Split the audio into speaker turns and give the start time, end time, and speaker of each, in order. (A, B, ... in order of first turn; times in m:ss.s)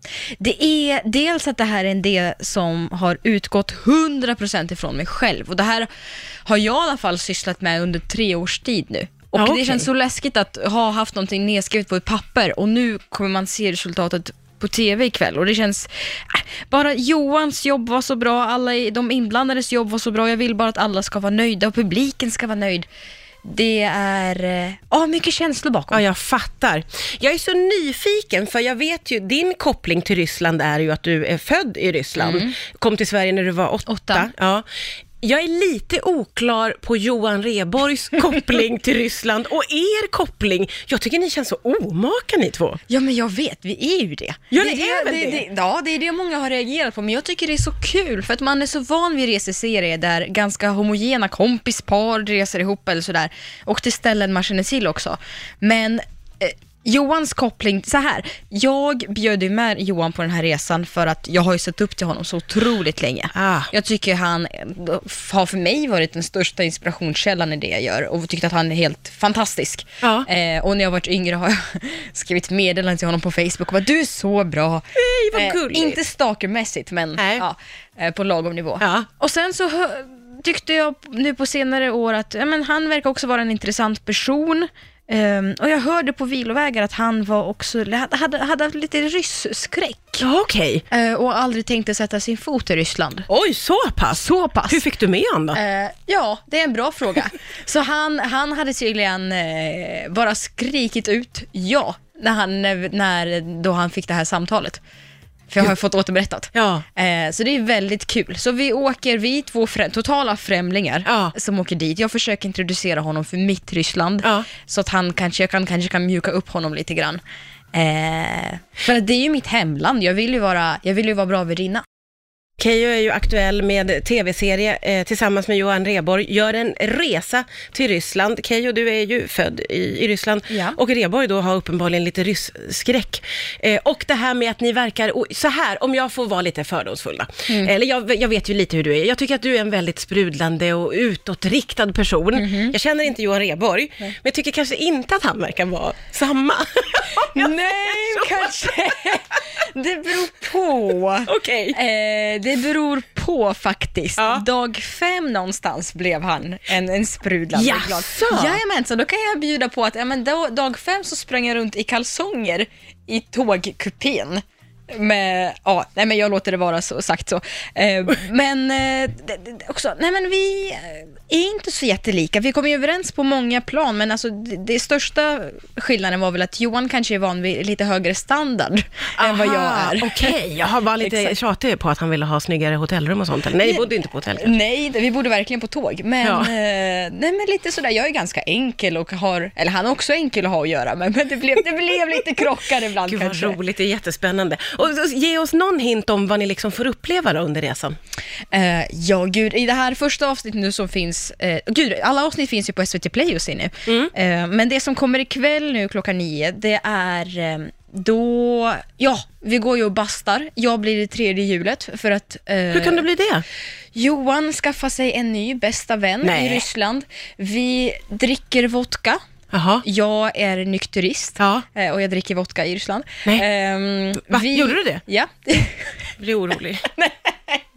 0:00.4-0:05.9 A
0:06.4-0:22.9 A
0:09.4-0:09.8 B
0:23.4-0:26.0 A
0:25.9-0:34.6 B
0:32.2-0:32.5 A
0:33.9-0:34.3 A
0:35.2-0:42.8 B
0:42.9-1:30.2 A
0:44.5-0:45.4 B
1:03.3-1:03.7 B
1:10.0-1:10.3 B
1:15.0-1:16.0 B
1:17.2-1:17.4 B
1:18.8-1:19.1 B
1:30.2-1:30.8 B
1:30.9-1:33.3 A
1:33.3-1:35.6 B
1:34.1-1:34.8 A
1:35.5-1:44.8 A
1:45.5-1:57.2 A
1:46.5-1:46.8 B
1:51.0-1:51.3 B
1:54.2-1:54.5 B
1:57.7-2:01.8 A
2:02.6-2:28.5 B
2:10.5-2:10.8 A
2:22.4-2:22.7 A
2:27.2-3:00.4 A
2:31.2-2:31.8 B
2:34.2-2:34.4 B
2:37.5-2:38.6 B
2:59.2-3:04.5 B
3:01.0-3:01.4 A
3:03.6-3:13.6 A
3:06.2-3:06.5 B
3:13.0-3:18.0 B
3:18.5-3:33.0 A
3:32.7-3:33.4 B
3:33.9-3:39.2 A
3:36.2-3:36.6 B
3:39.5-3:39.8 B
3:39.8-3:45.9 A
3:41.4-3:41.6 B
3:44.3-3:45.0 B
3:46.2-3:46.9 B
3:46.9-3:47.6 A